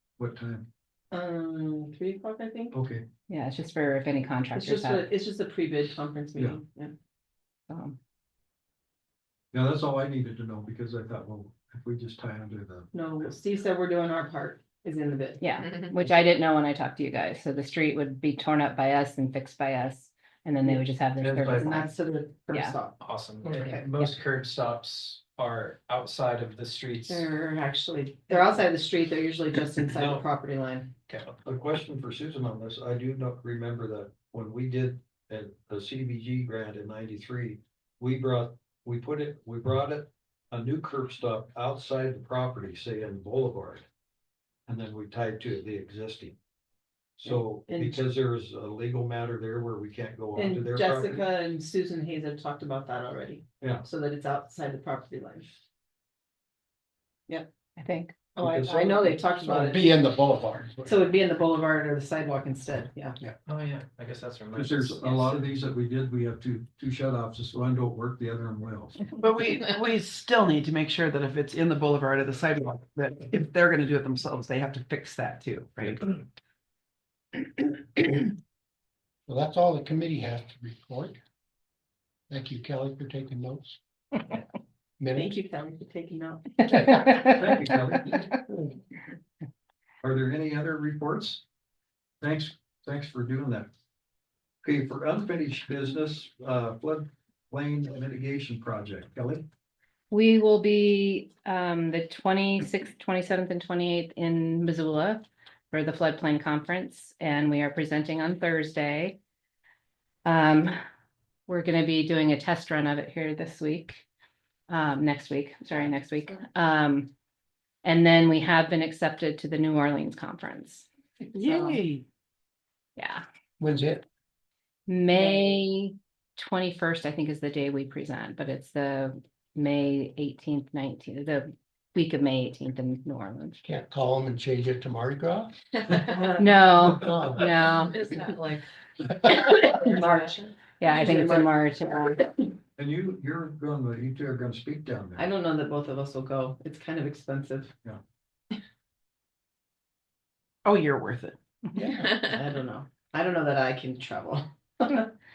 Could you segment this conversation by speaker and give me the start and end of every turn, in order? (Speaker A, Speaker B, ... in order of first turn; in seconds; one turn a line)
Speaker A: 0.2-0.7
Speaker B: 1.1-2.7
Speaker A: 2.7-3.0
Speaker C: 3.3-5.0
Speaker B: 4.5-6.9
Speaker C: 7.7-8.0
Speaker A: 9.5-13.3
Speaker B: 12.9-15.5
Speaker C: 15.4-21.9
Speaker A: 21.2-21.7
Speaker B: 21.6-23.8
Speaker C: 22.5-22.8
Speaker D: 23.2-27.2
Speaker B: 27.1-30.9
Speaker D: 31.1-31.4
Speaker A: 31.4-43.9
Speaker A: 44.7-46.4
Speaker A: 47.2-51.2
Speaker B: 47.3-48.0
Speaker B: 50.4-55.5
Speaker A: 53.6-53.9
Speaker C: 57.8-58.2
Speaker B: 58.4-60.0
Speaker A: 58.4-59.2
Speaker E: 59.4-61.0
Speaker B: 60.9-63.2
Speaker D: 63.5-65.4
Speaker A: 64.5-69.0
Speaker F: 69.2-76.2
Speaker E: 79.3-81.2
Speaker E: 82.3-83.8
Speaker E: 85.0-85.3
Speaker B: 85.1-86.5
Speaker C: 86.7-87.3
Speaker A: 87.0-88.3
Speaker A: 90.0-91.4
Speaker A: 92.2-93.7
Speaker A: 94.6-99.5
Speaker C: 100.1-109.2
Speaker C: 110.2-110.7
Speaker C: 111.5-114.0
Speaker C: 114.7-117.1
Speaker C: 117.8-120.9
Speaker F: 121.3-122.0
Speaker C: 121.4-121.8
Speaker C: 123.0-123.2
Speaker E: 123.6-124.0
Speaker C: 124.9-133.6
Speaker E: 133.6-135.9
Speaker B: 135.9-136.4
Speaker C: 136.4-138.2
Speaker E: 136.8-137.5
Speaker B: 138.1-138.5
Speaker C: 139.2-142.2
Speaker B: 139.5-141.5
Speaker A: 142.8-145.2
Speaker B: 145.2-147.7
Speaker F: 150.6-151.3
Speaker E: 151.7-152.2
Speaker B: 152.2-155.1